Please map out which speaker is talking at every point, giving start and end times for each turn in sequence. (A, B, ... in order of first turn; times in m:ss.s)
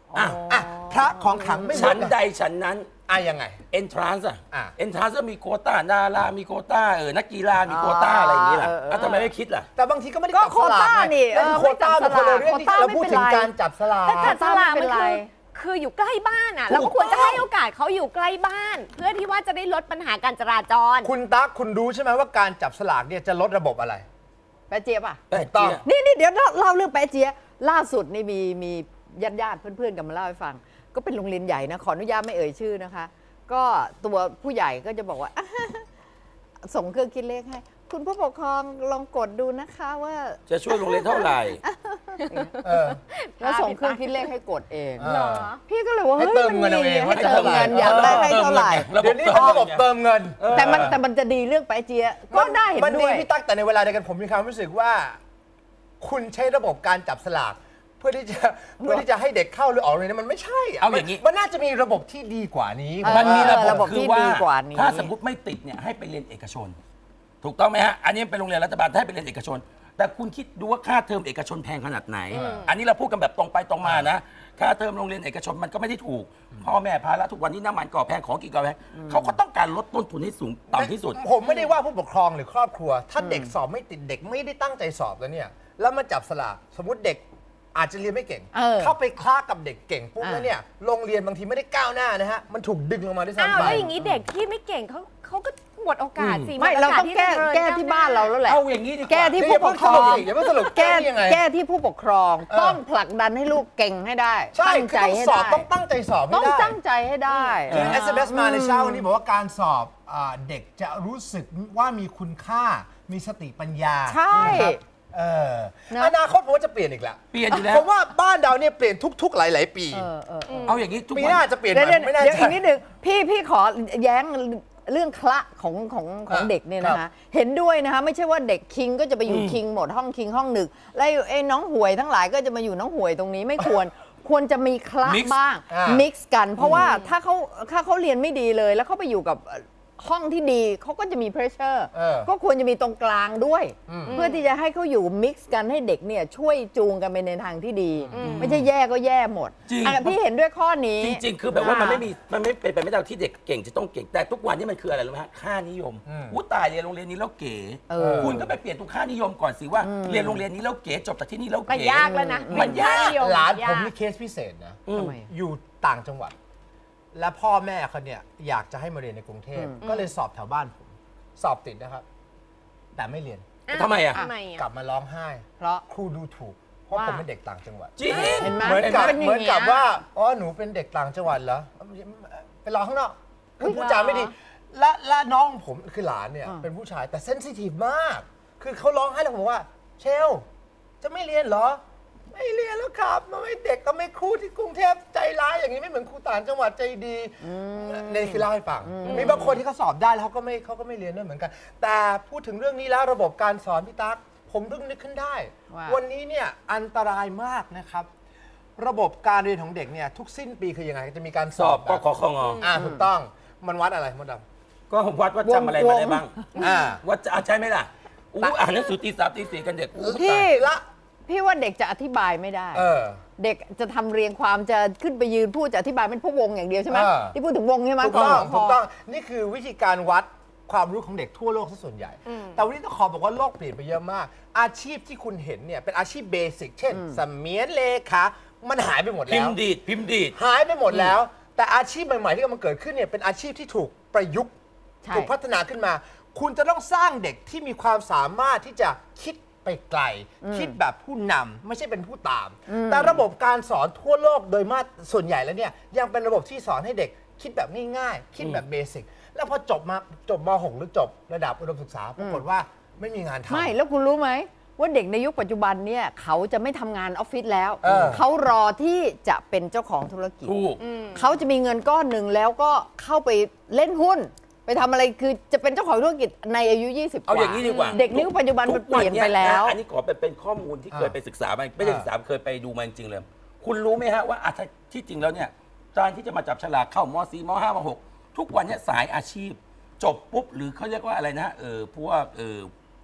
0:00.1-0:01.9 A
0:00.1-0:00.4 B
0:00.4-0:02.2 C
0:01.7-0:02.9 B
0:03.1-0:03.6 C
0:03.7-0:09.7 B
0:04.5-0:04.8 C
0:07.6-0:09.3 A
0:09.7-0:14.4 C
0:10.3-0:15.3 A
0:14.2-0:21.1 D
0:16.7-0:17.4 C
0:21.0-0:24.0 C
0:24.7-0:25.2 A
0:25.3-0:25.8 B
0:25.3-0:25.8 C
0:25.8-0:35.9 A
0:36.6-0:42.5 A
0:40.5-0:41.6 B
0:42.2-0:44.2 D
0:42.6-0:43.0 C
0:43.4-0:49.4 A
0:45.0-0:45.5 C
0:45.0-0:45.6 D
0:46.2-0:48.4 C
0:47.1-0:49.8 B
0:48.9-0:50.9 C
0:50.4-0:51.0 B
0:50.5-0:53.3 A
0:52.3-0:55.2 C
0:56.0-1:03.9 C
0:58.8-0:59.0 A
1:00.8-1:01.2 B
1:03.0-1:05.1 A
1:03.0-1:06.8 B
1:07.4-1:21.2 B
1:12.3-1:12.7 D
1:12.3-1:12.7 C
1:13.8-1:14.1 C
1:18.9-1:19.3 A
1:20.7-1:27.2 C
1:21.4-1:21.7 D
1:23.2-1:23.5 A
1:27.7-1:33.9 C
1:28.5-1:28.9 A
1:30.2-1:30.5 A
1:33.4-1:38.4 D
1:33.6-1:34.1 A
1:36.2-1:36.6 B
1:36.6-1:45.7 A
1:38.4-1:39.5 B
1:39.4-1:41.4 C
1:40.0-1:40.3 D
1:42.5-1:42.8 C
1:44.5-1:46.8 C
1:46.3-1:49.0 A
1:47.7-1:48.0 B
1:47.7-2:00.1 C
1:54.1-1:54.8 A
1:54.3-1:54.6 B
1:55.9-1:56.2 A
1:57.3-1:57.9 B
1:59.9-2:00.8 A
2:00.5-2:00.8 D
2:00.6-2:01.4 B
2:01.1-2:02.6 C
2:01.7-2:31.7 A
2:06.3-2:07.0 C
2:09.3-2:09.6 B
2:15.0-2:15.4 B
2:15.7-2:16.0 C
2:16.6-2:16.9 C
2:16.8-2:17.1 D
2:21.9-2:22.3 C
2:23.9-2:24.2 C
2:24.1-2:24.4 D
2:28.0-2:28.6 C
2:28.1-2:28.5 D
2:28.2-2:28.6 B
2:29.7-2:30.2 B
2:31.0-2:43.2 B
2:31.6-2:32.0 D
2:36.0-2:36.4 C
2:37.9-2:38.5 A
2:37.9-2:38.4 C
2:39.8-2:40.4 A
2:41.7-2:43.9 D
2:42.0-2:42.8 A
2:42.8-2:46.3 C
2:44.9-2:45.2 B
2:44.9-2:45.3 A
2:47.1-2:52.0 C
2:49.5-2:49.8 A
2:49.8-2:50.1 D
2:52.9-2:53.5 C
2:53.7-2:54.6 D
2:53.7-2:54.2 B
2:54.5-3:10.4 C
2:55.6-2:55.8 A
2:56.9-2:57.2 D
2:58.0-2:59.2 B
2:58.1-2:58.6 D
2:58.1-2:59.9 A
3:03.6-3:04.3 D
3:11.0-3:11.8 C
3:12.3-3:28.1 C
3:17.4-3:19.6 A
3:19.0-3:19.5 D
3:25.7-3:26.0 A
3:28.8-3:32.0 C
3:31.6-3:32.6 B
3:32.4-3:32.7 D
3:32.6-3:34.4 C
3:32.7-3:33.0 A
3:34.9-3:36.4 B
3:35.4-3:36.3 A
3:36.6-3:37.0 C
3:37.0-3:40.5 B
3:40.0-3:40.8 C
3:41.2-3:48.8 A
3:42.7-3:43.2 C
3:46.9-3:47.4 C
3:48.0-3:59.6 C
3:48.0-3:48.5 B
3:52.3-3:52.6 D
3:56.9-3:57.2 A
3:59.2-4:00.4 B
4:00.3-4:04.5 C
4:05.0-4:05.3 A
4:05.1-4:23.7 C
4:10.4-4:10.8 A
4:12.7-4:13.2 A
4:22.2-4:22.4 A
4:23.5-4:30.6 A
4:27.8-4:28.2 C
4:30.4-4:30.8 B
4:30.8-4:31.3 D
4:31.1-4:39.8 A
4:37.2-4:52.7 B
4:37.6-4:38.0 D
4:40.9-4:41.2 C
4:41.8-4:42.1 C